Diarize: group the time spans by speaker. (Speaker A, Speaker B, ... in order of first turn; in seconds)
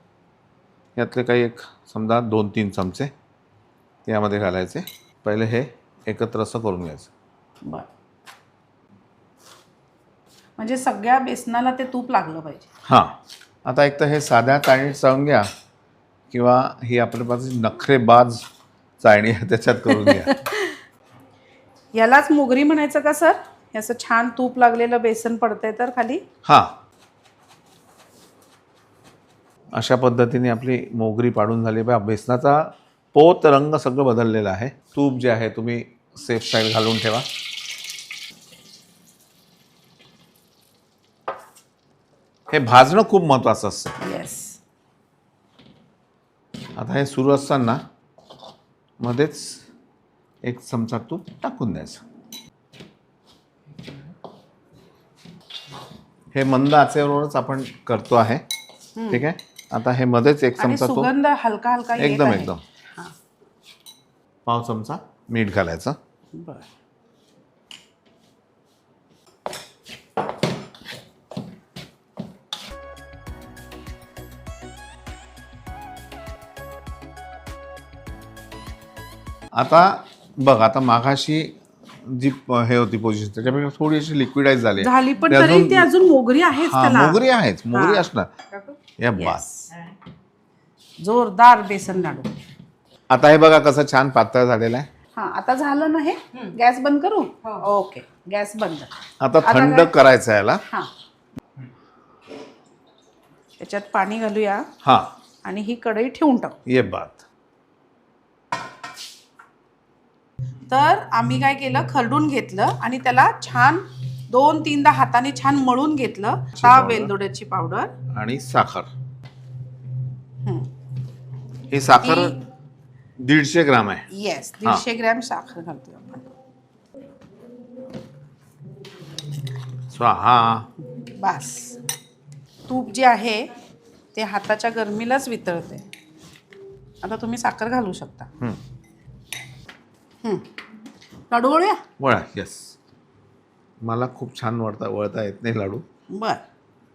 Speaker A: 0.9-3.1, 4.0-7.1, 12.8-15.4, 16.3-18.4, 19.0-20.3, 26.4-26.7, 29.7-37.3, 42.5-44.0, 46.8-47.8, 49.0-49.6, 50.4-52.0, 56.3-58.4, 59.1-61.1, 62.0-62.6, 64.5-66.0, 79.5-85.9, 86.6-88.3, 89.0-89.4, 93.1-94.9, 99.2-100.6, 104.8-105.1, 106.7-107.2, 116.5-117.1, 118.1-118.9, 121.7-122.4, 123.2-124.1, 129.9-130.7, 142.0-142.8, 143.8-145.8
Speaker B: 10.6-12.7, 19.9-20.8, 21.9-26.2, 44.0-44.6, 59.0-59.3, 60.6-63.1, 66.3-66.7, 84.8-89.7, 91.0-92.3, 95.2-99.9, 103.6-104.7, 105.4-106.6, 110.7-117.9, 121.9-122.4, 124.1-126.3, 131.0-131.8, 132.7-133.5, 134.1-135.8, 137.0-138.3, 141.3-141.8, 146.1-146.4